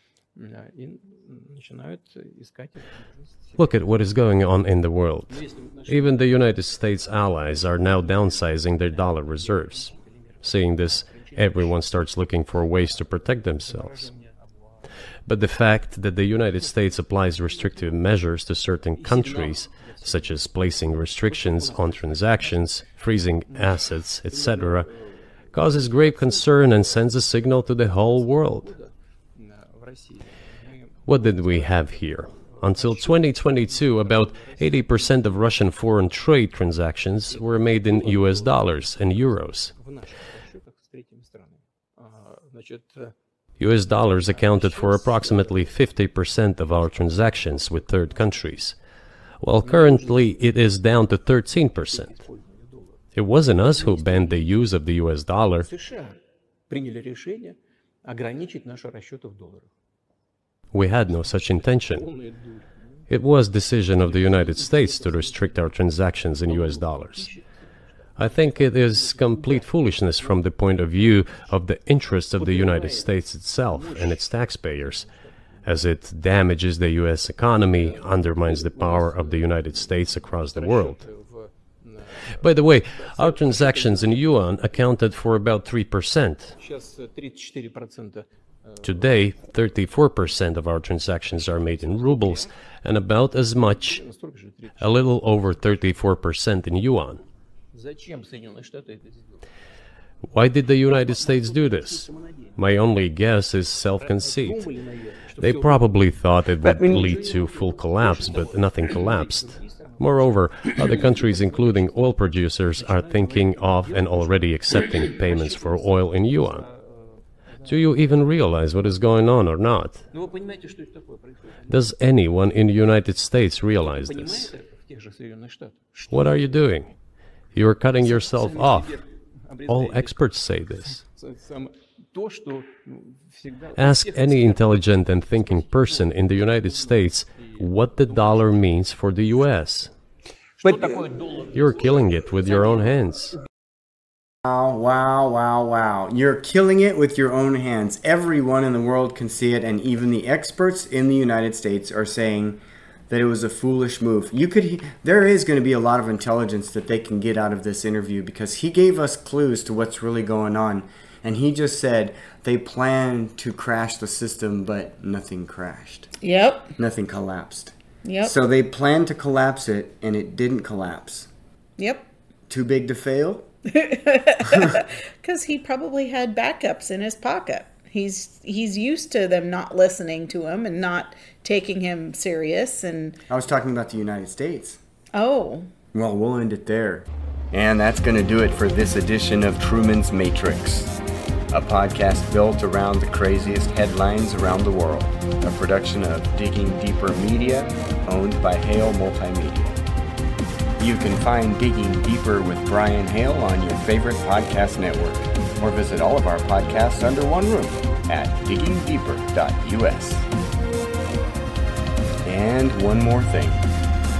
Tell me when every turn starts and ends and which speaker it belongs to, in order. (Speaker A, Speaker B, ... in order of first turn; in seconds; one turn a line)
Speaker A: 0.3-3.6
Speaker B: 3.6-14.1
Speaker A: 5.3-6.6
Speaker A: 8.9-11.8
Speaker A: 13.7-14.9
Speaker B: 15.3-24.9
Speaker A: 17.6-17.8
Speaker A: 19.0-20.4
Speaker A: 21.3-22.6
Speaker A: 23.5-23.8
Speaker A: 24.3-35.5
Speaker B: 25.5-28.7
Speaker B: 31.1-39.7
Speaker A: 37.3-43.1
Speaker B: 43.6-48.8
Speaker A: 44.3-45.7
Speaker A: 48.0-48.2
Speaker B: 49.4-52.2
Speaker A: 49.6-50.5
Speaker A: 51.9-53.0
Speaker B: 53.1-55.7
Speaker A: 53.6-54.5
Speaker A: 55.6-59.7
Speaker B: 60.7-62.1
Speaker A: 61.1-63.0
Speaker B: 63.1-67.3
Speaker A: 64.0-65.7
Speaker A: 66.4-71.5
Speaker B: 68.2-75.1
Speaker A: 72.4-73.1
Speaker A: 73.7-75.3
Speaker B: 75.6-81.0
Speaker A: 77.7-79.9
Speaker A: 80.5-82.4
Speaker B: 82.3-86.6
Speaker A: 83.0-84.7
Speaker A: 86.6-89.2
Speaker B: 88.8-94.0
Speaker A: 91.7-92.5
Speaker A: 93.6-95.0
Speaker B: 94.8-97.2
Speaker A: 97.7-99.4
Speaker B: 100.3-104.7
Speaker A: 100.9-102.6
Speaker A: 104.0-105.9
Speaker B: 105.4-116.7
Speaker A: 106.6-112.1
Speaker A: 112.8-118.0
Speaker B: 117.6-120.0
Speaker A: 120.1-121.8
Speaker B: 121.7-124.5
Speaker A: 123.8-126.4
Speaker B: 126.1-126.9
Speaker B: 127.5-129.0
Speaker A: 128.0-130.2
Speaker B: 129.7-131.0
Speaker A: 131.0-134.8
Speaker B: 133.8-139.9
Speaker A: 135.4-136.9
Speaker A: 137.4-138.4
Speaker A: 140.6-142.9
Speaker B: 141.5-143.4
Speaker C: 144.4-166.1
Speaker D: 166.2-166.8
Speaker C: 166.8-171.3
Speaker D: 168.0-168.3
Speaker D: 171.8-172.1
Speaker C: 172.5-173.5
Speaker D: 173.7-183.2
Speaker C: 174.4-174.8
Speaker C: 183.3-184.8
Speaker D: 185.1-185.7
Speaker C: 185.9-190.9
Speaker C: 191.5-199.8
Speaker C: 200.8-210.3
Speaker C: 212.2-213.7